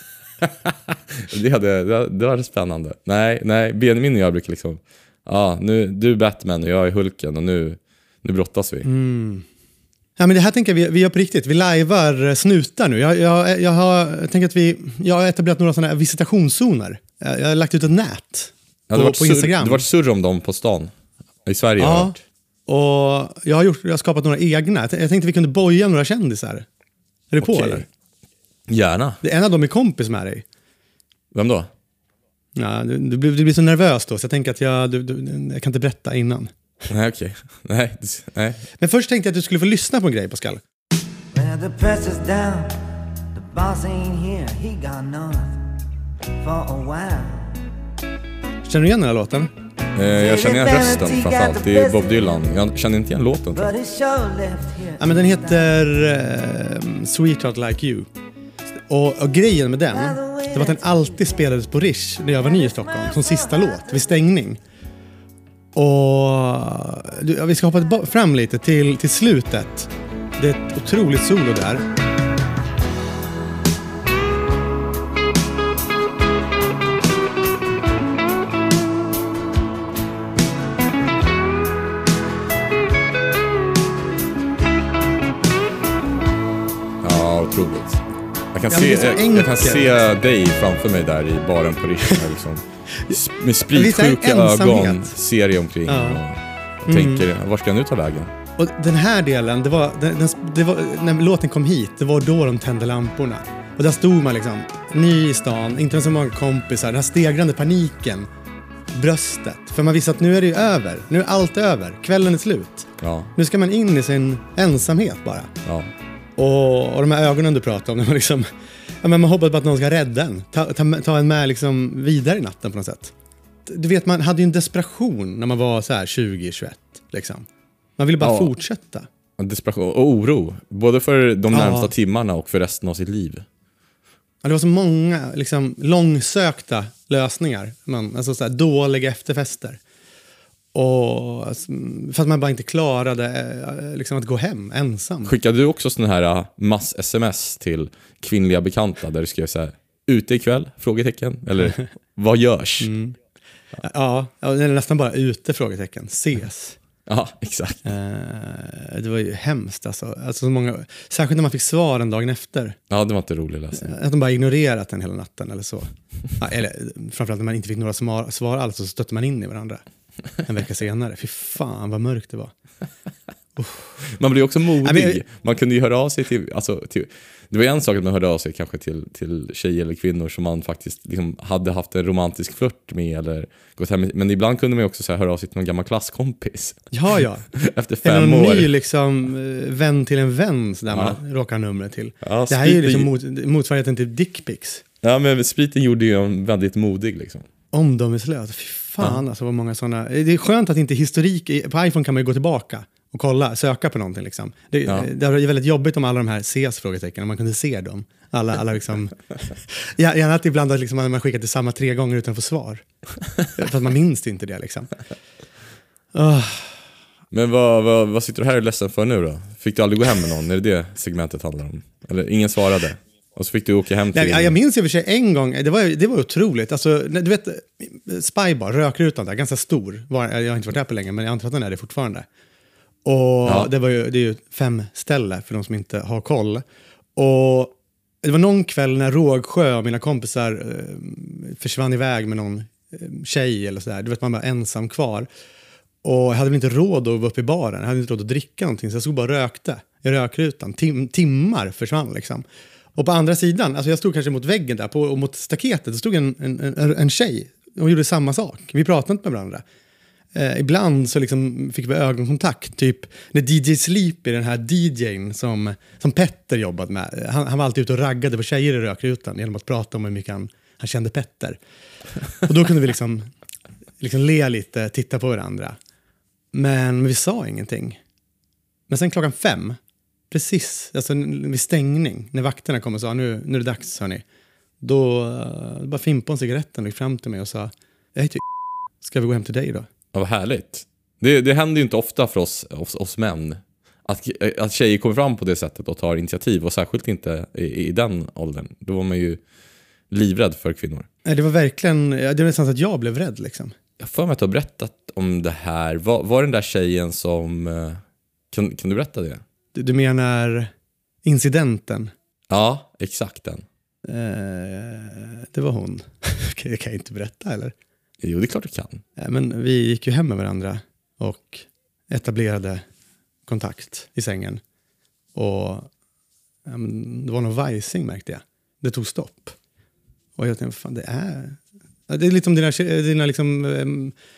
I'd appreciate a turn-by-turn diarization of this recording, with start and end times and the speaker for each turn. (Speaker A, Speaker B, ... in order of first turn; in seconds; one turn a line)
Speaker A: 0.4-8.9
Speaker B: 8.8-9.4
Speaker B: 10.2-19.9
Speaker A: 18.9-20.9
Speaker A: 21.4-22.2
Speaker B: 21.8-26.6
Speaker B: 27.3-27.8
Speaker A: 27.4-27.9
Speaker A: 28.7-29.2
Speaker B: 29.2-30.4
Speaker A: 31.3-31.7
Speaker B: 32.5-36.5
Speaker A: 36.9-38.6
Speaker B: 38.8-40.6
Speaker C: 41.3-45.7
Speaker C: 46.4-47.6
Speaker B: 48.6-49.5
Speaker A: 49.9-53.7
Speaker C: 50.1-52.4
Speaker C: 53.5-55.6
Speaker B: 55.0-58.1
Speaker B: 58.9-64.6
Speaker C: 59.9-61.5
Speaker C: 62.5-64.2
Speaker B: 65.7-71.8
Speaker A: 87.0-98.3
Speaker B: 88.7-89.9
Speaker B: 93.7-95.1
Speaker B: 95.9-96.2
Speaker B: 96.8-97.3
Speaker B: 98.6-108.3
Speaker B: 108.9-115.5
Speaker A: 113.0-113.3
Speaker A: 115.6-115.9
Speaker B: 116.3-123.1
Speaker B: 123.7-129.1
Speaker A: 128.2-128.5
Speaker A: 129.4-133.4
Speaker B: 131.5-131.9
Speaker B: 134.4-139.8
Speaker B: 140.7-145.3
Speaker A: 145.2-152.9
Speaker B: 152.8-153.2
Speaker B: 153.8-156.8
Speaker A: 157.1-157.8
Speaker B: 157.8-162.8
Speaker A: 162.9-163.9
Speaker B: 163.7-169.8
Speaker B: 170.4-172.5
Speaker B: 173.6-173.9
Speaker A: 174.1-186.8
Speaker B: 174.8-175.2
Speaker B: 186.9-194.8
Speaker A: 187.5-188.7
Speaker A: 190.9-191.2
Speaker A: 192.2-193.1
Speaker A: 195.0-197.4
Speaker B: 197.7-212.8
Speaker B: 213.5-214.9
Speaker B: 216.1-216.8
Speaker A: 217.3-224.5
Speaker B: 224.1-232.2
Speaker B: 233.0-236.6
Speaker A: 233.4-233.7
Speaker B: 237.2-245.3
Speaker B: 246.0-259.6
Speaker B: 260.3-271.6
Speaker B: 272.4-273.3
Speaker B: 274.0-275.8
Speaker B: 276.5-278.0
Speaker B: 278.9-279.8
Speaker B: 280.3-284.2
Speaker B: 284.8-288.4
Speaker B: 289.0-289.9
Speaker A: 290.1-299.4
Speaker A: 300.1-301.1
Speaker B: 301.2-303.7
Speaker A: 304.0-309.4
Speaker B: 309.7-310.7
Speaker B: 311.2-312.1
Speaker A: 312.5-313.6
Speaker B: 314.0-317.7
Speaker A: 318.2-319.0
Speaker B: 319.2-322.8
Speaker B: 323.5-324.6
Speaker B: 325.3-325.9
Speaker B: 326.6-329.6
Speaker B: 330.4-334.1